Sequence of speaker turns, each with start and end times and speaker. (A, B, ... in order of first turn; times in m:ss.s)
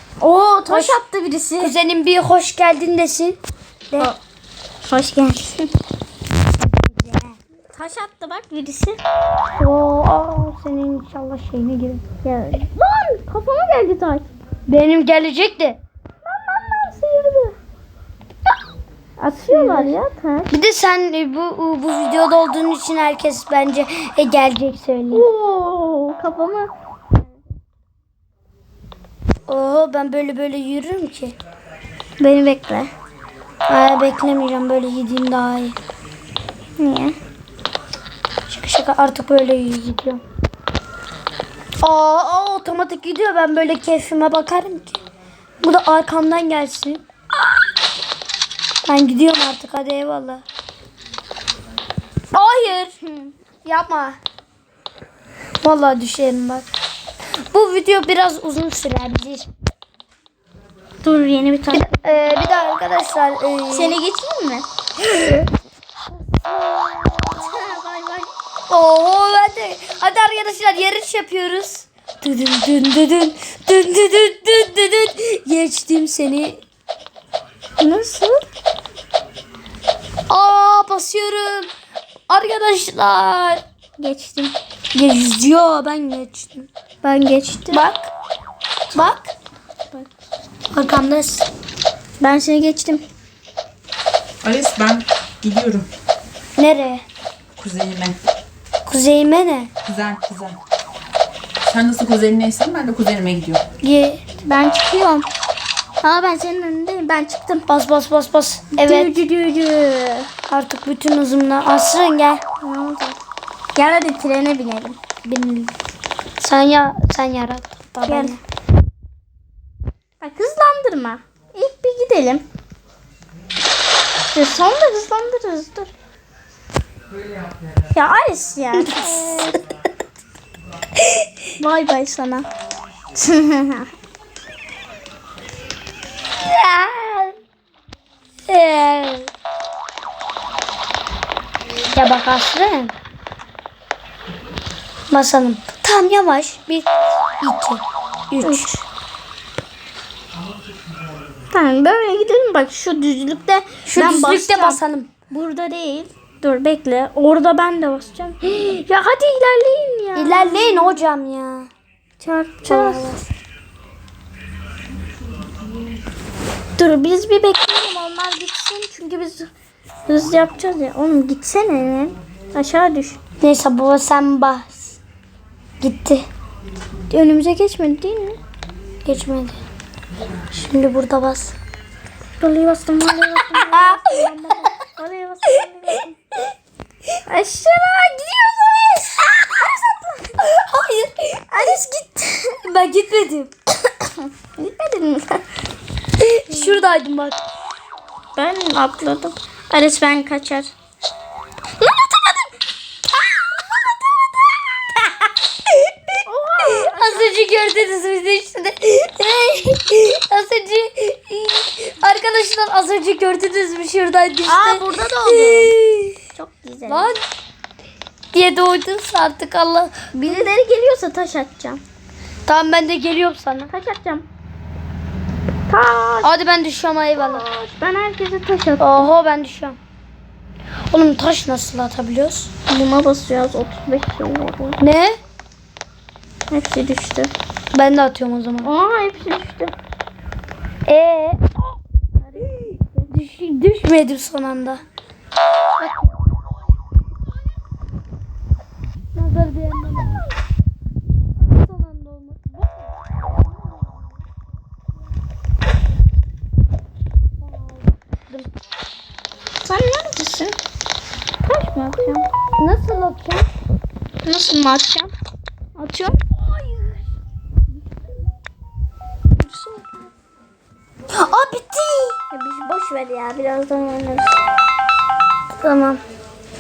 0:00.2-0:01.7 A
0:00.7-0:01.0 B
0:01.6-0:03.4 B
0:04.8-0:05.7 A
0:06.6-0:07.4 B
0:07.7-0:09.0 A
0:09.6-0:12.0 B
0:12.2-0:14.3 A
0:14.7-0:15.8 B
0:16.2-0:17.6 A
0:19.2-0:20.5 A
0:19.5-0:20.0 B
0:20.5-0:25.3 B
0:25.1-0:26.7 A
0:29.5-0:31.4 B
0:32.2-0:32.9 A
0:33.7-0:35.8 B
0:36.8-0:37.2 A
0:38.5-0:40.2 B
0:41.8-0:45.0 B
0:45.6-0:47.1 B
0:48.8-0:50.4 B
0:52.3-0:53.0 B
0:53.0-0:53.3 A
0:53.6-0:54.2 B
0:55.6-0:56.7 B
0:57.5-0:59.5 B
1:01.0-1:01.9 A
1:01.7-1:04.0 B
1:03.7-1:04.6 A
1:05.0-1:05.5 B
1:06.2-1:07.6 B
1:07.4-1:08.3 A
1:08.7-1:16.6 B
1:17.8-1:18.4 A
1:20.3-1:21.7 B
1:22.3-1:23.6 B
1:24.0-1:24.6 A
1:24.9-1:26.7 B
1:27.0-1:27.8 A
1:27.7-1:28.1 B
1:28.9-1:29.3 B
1:30.7-1:31.5 B
1:32.2-1:33.0 A
1:34.4-1:35.9 C
1:36.6-1:37.0 B
1:37.6-1:38.2 C
1:38.9-1:39.7 B
1:39.9-1:40.6 C
1:41.6-1:43.6 C
1:43.8-1:44.2 B
1:44.4-1:45.3 A
1:46.0-1:47.7 A
1:47.7-1:49.2 B
1:48.8-1:50.3 A
1:50.5-1:52.4 B
1:52.6-1:53.2 A
1:53.8-1:55.0 A
1:55.2-1:55.7 B
1:56.4-1:58.4 B
1:58.1-1:58.4 A
2:00.2-2:02.4 A
2:04.3-2:05.9 A
2:07.9-2:09.6 A
2:08.8-2:09.5 B
2:11.0-2:11.2 B
2:11.6-2:12.5 A
2:13.2-2:13.9 A
2:16.4-2:17.3 B
2:18.5-2:19.3 B
2:21.9-2:22.9 B
2:25.1-2:26.9 B
2:27.4-2:28.8 B
2:28.4-2:28.8 A
2:31.5-2:41.0 A
2:33.8-2:35.1 B
2:40.2-2:41.7 B
2:42.2-2:43.2 A
2:42.7-2:43.2 B
2:46.8-2:49.5 A
2:50.1-2:53.2 A
2:53.4-2:54.8 B
2:55.8-2:56.2 B
2:57.1-2:58.4 A
2:59.0-2:59.6 B
3:00.5-3:01.5 B
3:02.4-3:06.1 A
3:03.7-3:04.2 B
3:07.3-3:10.3 A
3:10.4-3:11.8 B
3:11.5-3:12.6 A
3:12.6-3:13.5 B
3:14.0-3:15.4 A
3:16.2-3:17.4 B
3:18.4-3:20.7 A
3:21.8-3:22.5 A
3:23.2-3:24.3 A
3:25.7-3:26.2 B
3:26.3-3:27.5 A
3:26.7-3:36.2 B
3:34.4-3:35.8 A
3:36.4-3:37.1 A
3:36.9-3:37.2 B
3:38.3-3:40.5 B
3:40.1-3:41.8 A
3:42.5-3:43.7 B
3:43.7-3:44.3 A
3:45.7-3:46.3 A
3:46.2-3:47.4 B
3:47.2-3:49.1 A
3:48.8-3:49.8 B
3:50.9-3:52.5 B
3:52.7-3:54.8 A
3:54.8-3:55.2 B
3:56.5-3:57.3 A
3:57.7-3:58.7 B
3:58.6-3:59.8 A
4:00.9-4:01.7 B
4:02.2-4:03.1 A
4:03.1-4:04.8 B
4:05.8-4:06.1 B
4:09.2-4:10.3 B
4:11.4-4:14.1 B
4:17.4-4:18.5 B
4:19.6-4:20.6 A
4:21.5-4:22.3 A
4:22.6-4:23.4 B
4:24.2-4:25.1 A
4:25.8-4:26.2 A
4:26.3-4:26.9 B
4:29.4-4:29.9 A
4:31.1-4:32.2 B
4:32.3-4:34.4 A
4:35.6-4:36.0 B